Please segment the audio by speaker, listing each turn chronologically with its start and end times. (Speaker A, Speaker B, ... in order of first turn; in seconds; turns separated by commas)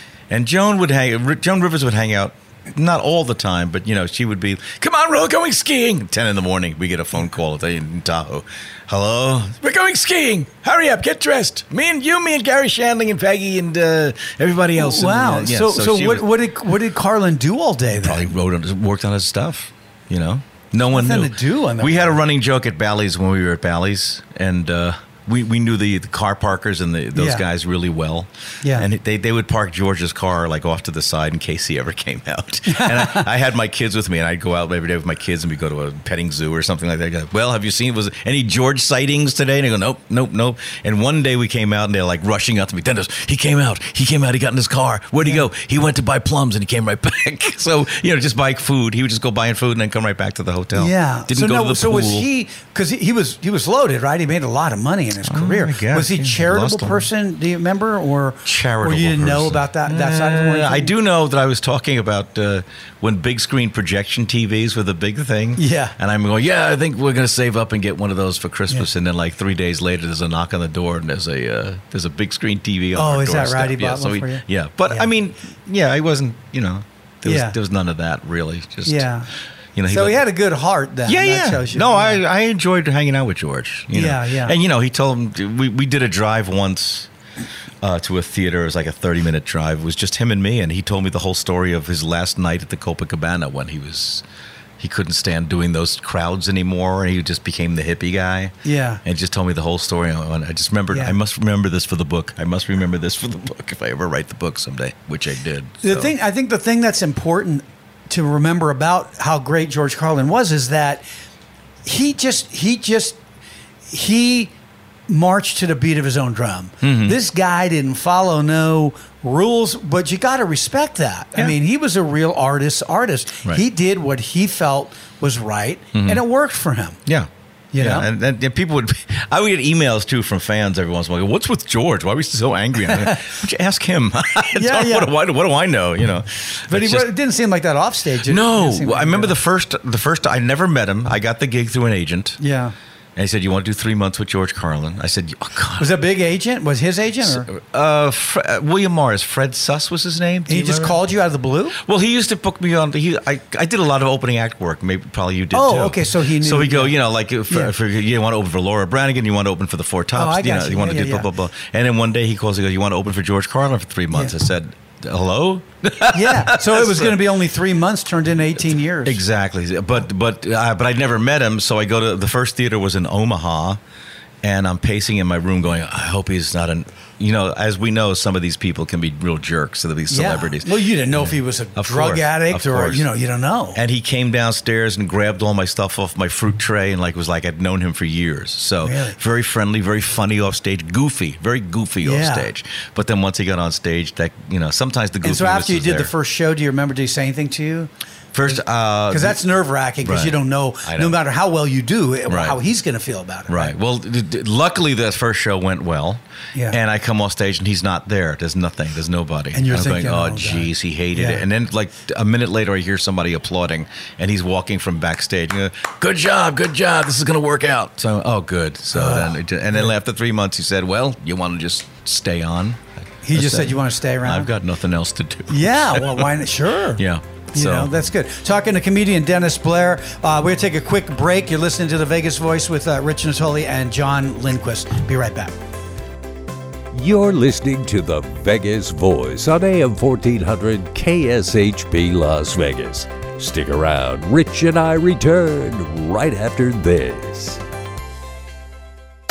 Speaker A: 0.3-16.3, Speaker B: 14.8-18.3, Speaker A: 18.0-52.3, Speaker B: 20.9-22.2, Speaker B: 27.1-27.4, Speaker B: 28.6-28.9, Speaker B: 32.7-33.2, Speaker B: 50.8-60.9, Speaker A: 55.2-57.1, Speaker A: 58.5-79.1, Speaker B: 65.6-65.9, Speaker B: 73.0-75.1, Speaker B: 77.2-77.5, Speaker B: 78.9-79.3, Speaker A: 79.8-80.2, Speaker B: 79.9-82.2, Speaker A: 81.1-87.1, Speaker B: 83.9-84.6, Speaker A: 87.8-94.2, Speaker A: 94.8-106.1, Speaker B: 98.7-99.0, Speaker B: 105.8-111.0, Speaker B: 111.8-113.2, Speaker B: 113.9-114.5, Speaker B: 115.1-127.0, Speaker A: 116.8-117.2, Speaker A: 125.9-126.2, Speaker A: 127.1-137.1, Speaker B: 127.7-128.1, Speaker B: 132.9-133.3, Speaker B: 134.5-135.1, Speaker B: 136.7-139.4, Speaker A: 138.2-142.4, Speaker B: 142.4-142.7, Speaker A: 143.2-145.9, Speaker B: 145.8-147.5, Speaker A: 147.2-151.0, Speaker B: 150.5-151.8, Speaker A: 151.8-167.2, Speaker B: 155.5-157.0, Speaker B: 160.1-161.3, Speaker B: 166.1-169.2, Speaker A: 168.7-173.8, Speaker A: 174.4-183.1, Speaker B: 180.1-183.8, Speaker A: 183.8-196.1, Speaker B: 188.8-189.2, Speaker B: 192.0-192.5, Speaker B: 195.2-197.9, Speaker A: 198.3-199.4, Speaker B: 198.5-203.7, Speaker A: 200.0-201.2, Speaker A: 202.3-202.6, Speaker A: 203.5-226.4, Speaker B: 209.5-211.4, Speaker B: 218.9-219.9, Speaker B: 223.2-224.5, Speaker B: 225.5-235.6, Speaker A: 226.9-227.9, Speaker C: 236.9-247.6